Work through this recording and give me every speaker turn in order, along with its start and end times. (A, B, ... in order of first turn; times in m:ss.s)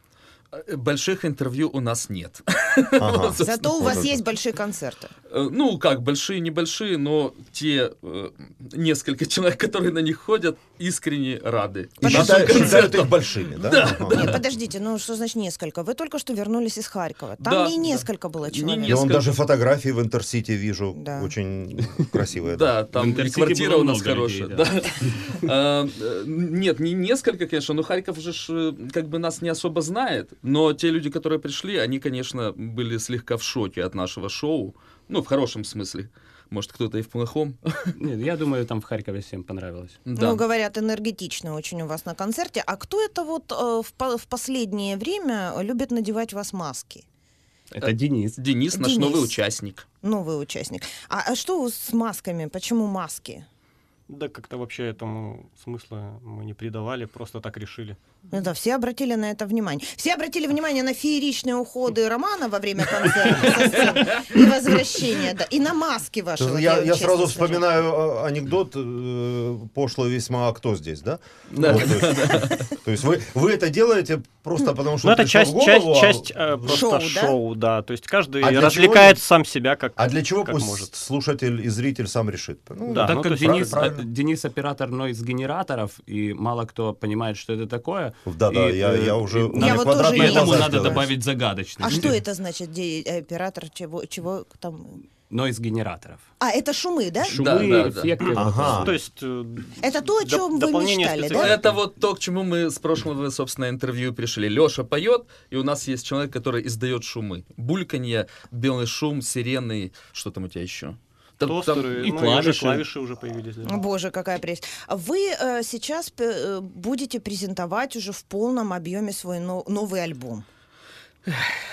0:00.5-0:03.6 A
0:03.0-0:04.2 B
0:03.4-0:05.1 C
0:05.3-0:14.4 A
0:12.0-0:12.8 C
0:12.0-0:14.3 B
0:14.0-0:19.1 C
0:17.4-0:19.3 A
0:18.9-0:22.8 B
0:20.9-0:21.3 C
0:22.5-0:37.9 A
0:22.9-0:25.1 D
0:38.0-0:40.0 D
0:40.0-0:40.4 A
0:40.1-0:47.0 C
0:47.7-0:48.4 D
0:47.8-0:49.8 A
0:48.7-0:49.3 C
0:50.0-0:53.4 C
0:54.1-0:58.0 E
0:58.3-1:07.6 C
1:03.8-1:04.1 A
1:06.4-1:16.6 B
1:11.6-1:11.9 D
1:11.6-1:12.6 A
1:15.0-1:20.9 E
1:16.7-1:17.4 C
1:18.4-1:19.2 B
1:20.0-1:24.0 B
1:22.9-1:32.2 D
1:22.9-1:23.9 E
1:28.2-1:31.1 B
1:29.6-1:31.1 C
1:31.8-1:35.0 C
1:35.3-1:36.2 D
1:36.4-1:37.6 C
1:37.2-1:39.0 D
1:37.3-1:38.2 A
1:38.2-1:41.8 E
1:38.4-1:38.9 B
1:39.8-1:41.6 C
1:41.3-1:52.4 A
1:51.4-1:53.8 E
1:52.0-1:52.8 D
1:53.6-2:00.4 C